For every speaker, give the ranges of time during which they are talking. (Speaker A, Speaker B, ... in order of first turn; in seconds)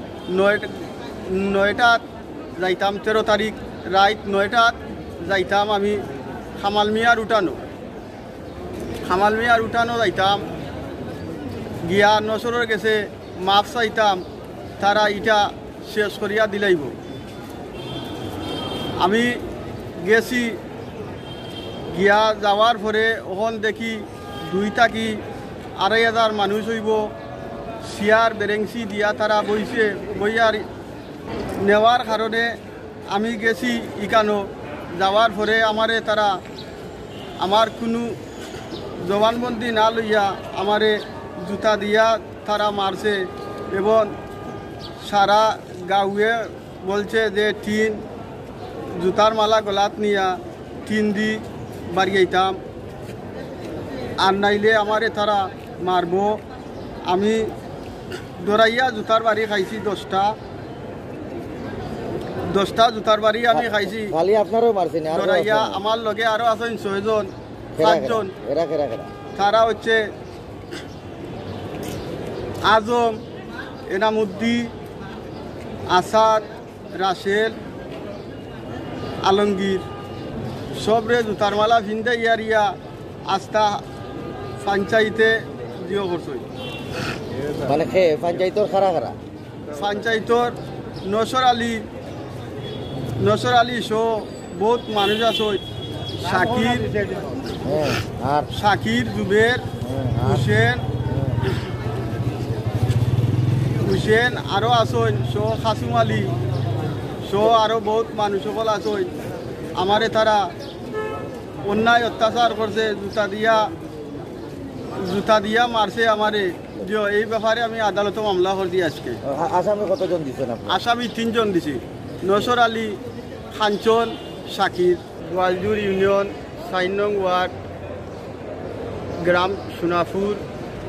Speaker A: 0.3-2.0, 2.6-6.0, 6.6-7.6, 9.0-10.4, 11.8-14.2, 14.8-16.9, 19.0-19.4, 20.0-20.6, 21.9-25.2, 25.8-27.1, 27.8-30.7, 31.6-32.5, 33.1-36.4, 37.4-38.2, 39.0-44.1, 45.0-48.0, 48.9-52.6, 54.2-56.4, 57.1-57.5, 58.4-60.4, 62.5-64.2, 65.1-68.3, 69.3-70.1, 72.6-73.2, 73.9-74.7, 75.9-77.6, 79.2-79.9, 80.8-82.8, 83.3-83.8, 84.6-86.5, 89.7-91.8, 93.2-95.6, 96.2-97.2, 98.5-99.7, 100.2-100.9, 103.8-106.3, 107.2-109.1, 109.8-110.5, 111.7-113.7, 115.0-119.2, 120.7-123.0, 123.5-127.5, 129.2-130.4
Speaker B: 63.5-65.8, 67.8-69.1, 87.6-89.2, 97.6-98.5, 99.8-100.4, 101.1-101.4, 119.2-120.8